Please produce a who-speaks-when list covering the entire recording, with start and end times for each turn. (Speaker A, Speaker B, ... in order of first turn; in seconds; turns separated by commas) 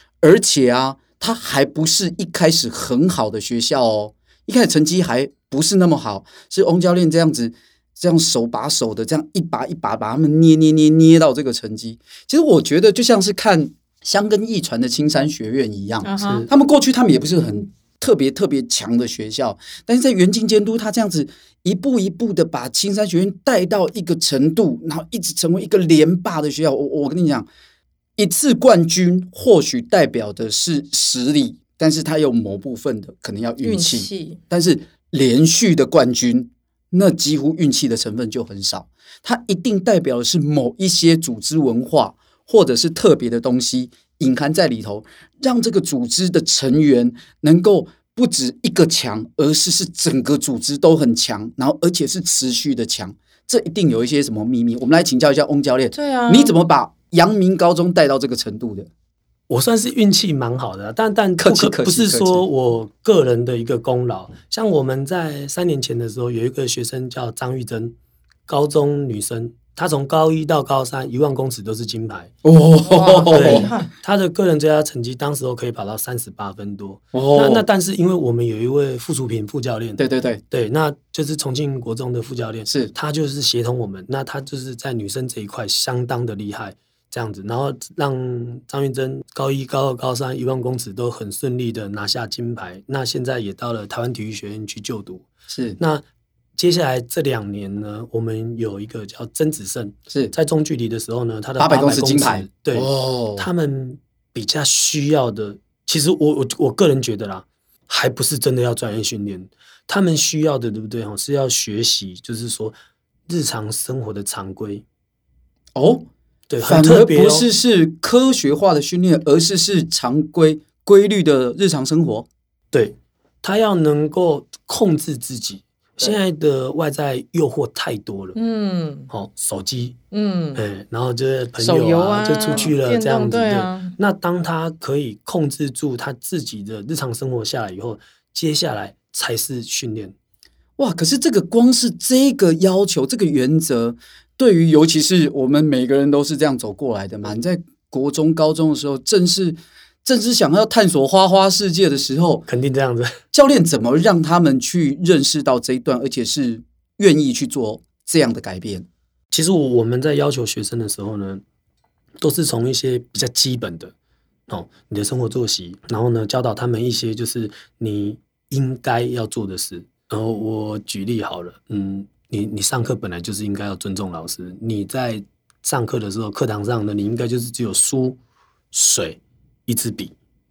Speaker A: 0.2-27.5, Speaker B: 16.0-16.4, Speaker C: 16.2-16.5, Speaker A: 28.2-58.9, Speaker B: 33.6-34.4, Speaker B: 55.9-56.5, Speaker C: 59.5-67.9, Speaker A: 61.4-62.5, Speaker C: 68.5-72.3, Speaker A: 72.4-73.7, Speaker B: 72.8-73.9, Speaker C: 73.3-95.2, Speaker A: 77.1-77.6, Speaker A: 80.0-80.4, Speaker A: 95.5-95.8, Speaker C: 95.8-96.0, Speaker C: 96.6-112.8, Speaker A: 101.6-103.5, Speaker C: 113.3-114.8, Speaker A: 115.7-116.1, Speaker C: 116.5-117.5, Speaker A: 116.6-122.3, Speaker C: 122.7-128.4, Speaker B: 128.3-129.1, Speaker C: 129.1-130.0, Speaker B: 130.1-130.6, Speaker C: 130.5-140.1, Speaker B: 131.6-133.9, Speaker A: 140.8-152.4, Speaker C: 152.5-153.2, Speaker A: 153.3-158.9, Speaker C: 159.3-161.4, Speaker C: 162.2-163.9, Speaker C: 164.5-178.2, Speaker C: 178.7-180.1